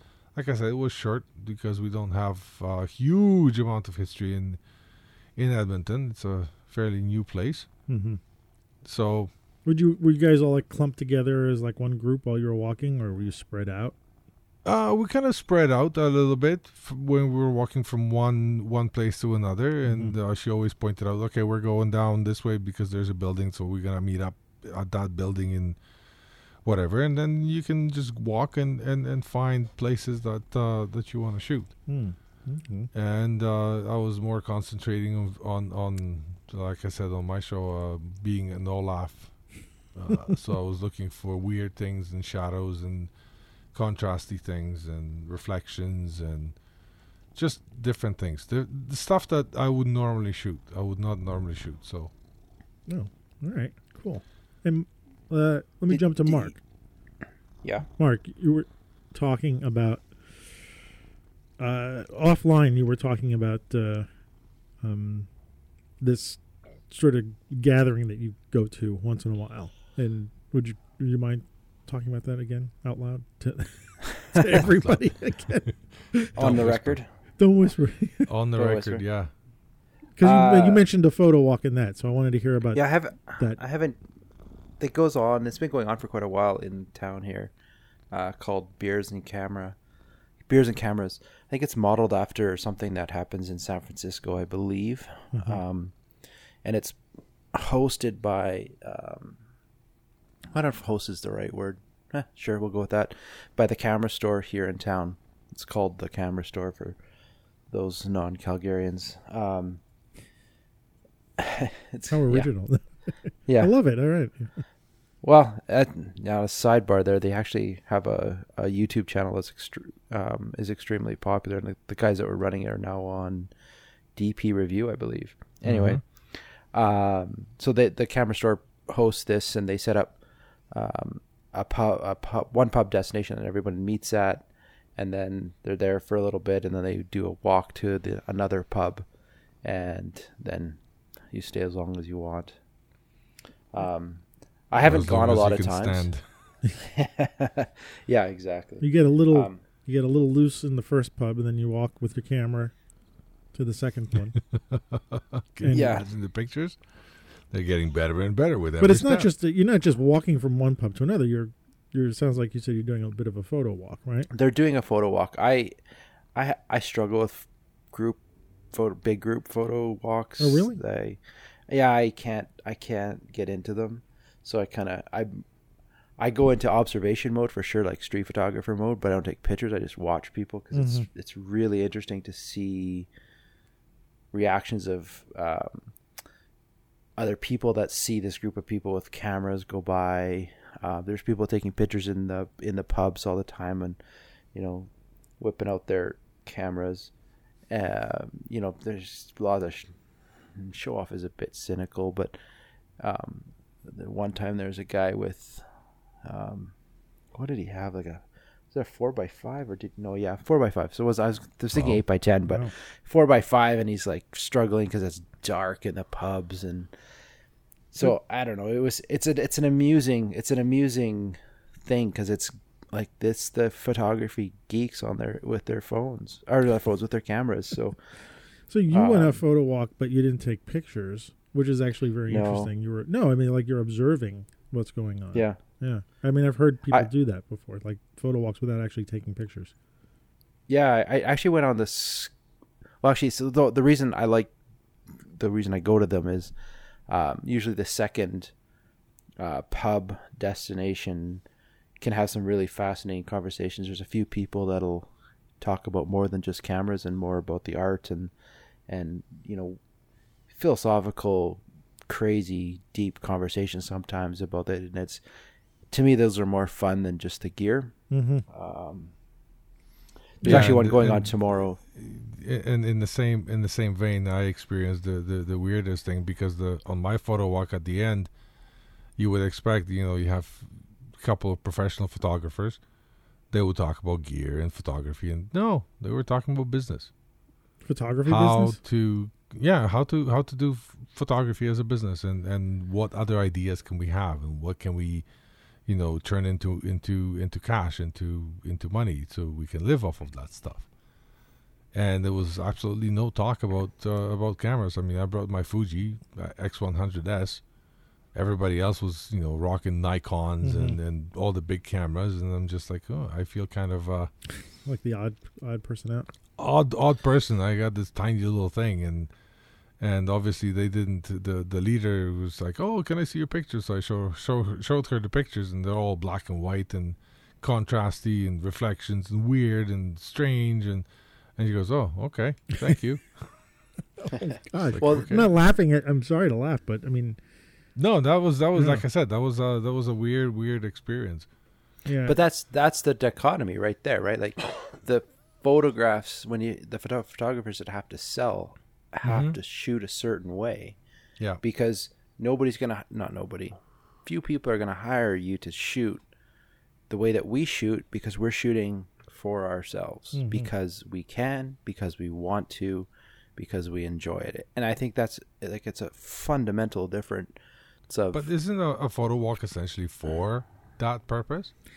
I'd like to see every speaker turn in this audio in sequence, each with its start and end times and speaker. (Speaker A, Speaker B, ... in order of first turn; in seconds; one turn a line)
Speaker A: 0.3-4.6
Speaker A: 5.3-7.7
Speaker B: 7.9-8.2
Speaker A: 8.8-9.3
Speaker B: 9.7-13.9
Speaker A: 14.6-25.8
Speaker B: 19.9-20.1
Speaker A: 26.6-31.7
Speaker B: 31.9-32.9
Speaker A: 32.9-39.4
Speaker A: 39.9-43.1
Speaker A: 43.7-46.6
Speaker A: 47.3-52.1
Speaker B: 52.9-56.6
Speaker C: 55.9-56.5
Speaker B: 58.0-60.1
Speaker B: 61.6-64.1
Speaker B: 64.8-65.3
Speaker B: 66.0-76.5
Speaker A: 76.3-77.0
Speaker C: 76.3-77.1
Speaker B: 77.4-78.3
Speaker A: 78.3-79.3
Speaker C: 78.5-79.0
Speaker B: 80.2-82.8
Speaker C: 80.2-80.8
Speaker C: 82.7-84.0
Speaker C: 84.8-87.5
Speaker C: 88.1-89.8
Speaker C: 90.5-95.9
Speaker B: 95.3-95.6
Speaker C: 96.6-97.0
Speaker C: 97.5-99.4
Speaker C: 100.5-107.0
Speaker C: 107.7-109.8
Speaker C: 111.4-112.5
Speaker B: 112.1-112.9
Speaker C: 113.5-113.7
Speaker B: 113.6-114.6
Speaker C: 115.2-123.5
Speaker C: 124.1-130.2
Speaker A: 125.6-126.0
Speaker C: 130.7-139.1
Speaker C: 139.6-140.8
Speaker C: 141.3-142.6
Speaker C: 143.7-146.1
Speaker A: 144.8-146.2
Speaker C: 146.8-149.6
Speaker B: 148.8-152.7
Speaker B: 153.5-154.4
Speaker A: 154.7-156.8
Speaker B: 155.6-155.9
Speaker C: 155.7-156.1
Speaker A: 157.5-159.3
Speaker B: 158.8-164.3
Speaker C: 164.3-165.7
Speaker C: 166.3-168.2
Speaker C: 168.7-175.4
Speaker B: 170.4-170.8
Speaker C: 176.2-183.1
Speaker B: 180.7-181.1
Speaker C: 184.3-185.9
Speaker C: 187.2-194.0
Speaker C: 194.5-197.1
Speaker C: 197.7-199.9
Speaker C: 200.5-202.3
Speaker C: 203.0-205.7
Speaker C: 206.2-206.7
Speaker C: 207.3-216.9
Speaker B: 212.5-212.7
Speaker C: 217.9-228.0
Speaker B: 228.7-239.7
Speaker C: 228.9-229.4
Speaker C: 232.3-232.7
Speaker C: 240.7-242.3
Speaker C: 243.0-244.5
Speaker C: 245.3-246.5
Speaker C: 247.1-248.5
Speaker C: 249.4-251.4
Speaker C: 252.0-258.3
Speaker C: 258.9-259.8
Speaker C: 260.5-265.2
Speaker C: 265.9-267.9
Speaker B: 268.1-268.4
Speaker C: 268.5-269.1
Speaker B: 270.4-270.7
Speaker C: 270.4-271.8
Speaker A: 270.4-278.3
Speaker A: 279.2-282.8
Speaker A: 283.5-287.1
Speaker B: 287.8-288.8
Speaker A: 288.2-295.2
Speaker A: 295.9-300.9
Speaker A: 301.9-307.6
Speaker A: 308.3-314.3
Speaker B: 310.6-311.0
Speaker B: 314.8-316.3
Speaker A: 316.6-319.3
Speaker A: 320.0-331.1
Speaker A: 331.6-333.4
Speaker B: 334.2-337.4
Speaker A: 334.8-335.5
Speaker C: 335.0-335.3
Speaker A: 337.9-341.5
Speaker B: 338.8-339.0
Speaker B: 342.1-342.3
Speaker C: 342.2-351.0
Speaker A: 349.2-349.6
Speaker C: 351.6-356.2
Speaker C: 357.1-367.5
Speaker B: 360.3-360.7
Speaker C: 368.1-368.4
Speaker A: 368.3-371.7